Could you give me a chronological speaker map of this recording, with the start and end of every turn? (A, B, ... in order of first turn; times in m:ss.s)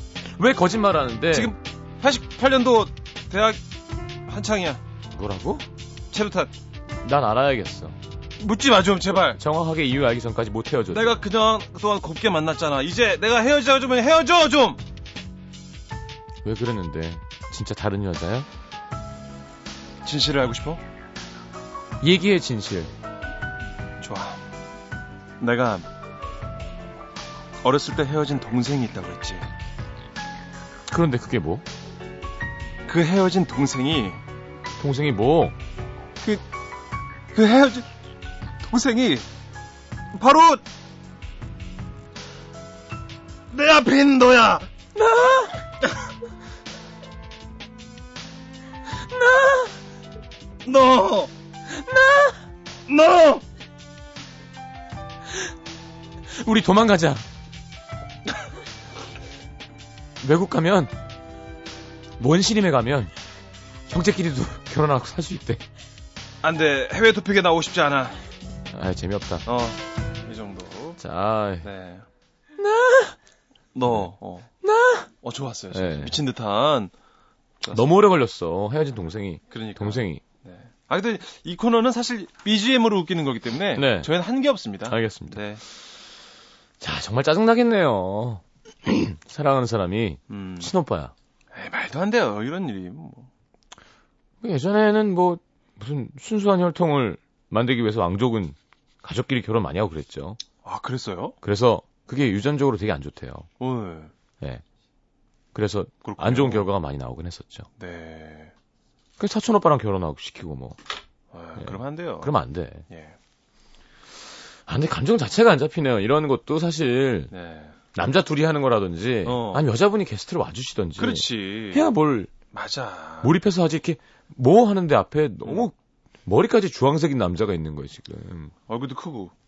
0:00.2-0:01.5 A
0:01.3-0:03.6 B
0:04.2-0:04.8 B
0:05.1-0:05.6 A
0:06.1-0:06.5 B
0:07.0-0:08.0 A
0:08.4-0:09.4 B
0:09.3-0:11.2 A
0:10.9-0:14.8 B
0:16.4-0:18.5 A
0:20.0-0:20.8 B
0:22.0-0:22.9 A
0:24.0-0:24.4 B
0:25.4-0:25.8 B
0:27.6-0:29.5 B
0:30.9-0:31.6 A
0:32.9-0:34.2 B
0:34.8-0:35.6 A
0:37.3-0:37.9 B
0:38.6-0:39.3 B
0:40.1-0:40.6 B
0:43.5-0:44.7 B
0:45.0-0:45.5 A
0:49.0-0:49.7 A
0:50.6-0:51.3 B
0:51.9-0:52.3 A
0:52.9-0:53.4 B
0:56.3-0:57.2 A
1:00.2-1:00.9 A
1:02.2-1:03.1 A
1:03.9-1:05.6 A
1:06.4-1:08.2 B
1:08.7-1:09.4 A
1:09.4-1:11.0 B
1:11.0-1:11.7 A
1:11.6-1:12.0 B
1:12.6-1:13.2 A
1:13.7-1:14.5 B
1:14.6-1:15.1 A
1:15.2-1:16.9 B
1:15.7-1:16.2 A
1:17.6-1:17.9 B
1:17.7-1:20.2 A
1:19.5-1:25.6 B
1:23.7-1:24.1 A
1:24.9-1:25.4 A
1:26.8-1:31.1 A
1:30.3-1:30.7 B
1:31.5-1:33.3 B
1:34.4-1:40.4 A
1:40.6-1:41.4 B
1:41.4-1:43.5 A
1:43.6-1:44.1 B
1:45.5-1:47.6 A
1:46.0-1:46.7 B
1:47.8-1:48.5 B
1:49.2-1:50.8 A
1:51.3-1:52.3 B
1:51.6-1:52.8 A
1:52.9-1:53.2 B
1:54.7-1:57.3 A
1:57.3-1:57.8 B
1:57.9-2:02.3 A
1:59.2-1:59.7 B
2:01.0-2:01.8 B
2:02.5-2:03.3 B
2:03.2-2:08.5 A
2:08.7-2:09.3 B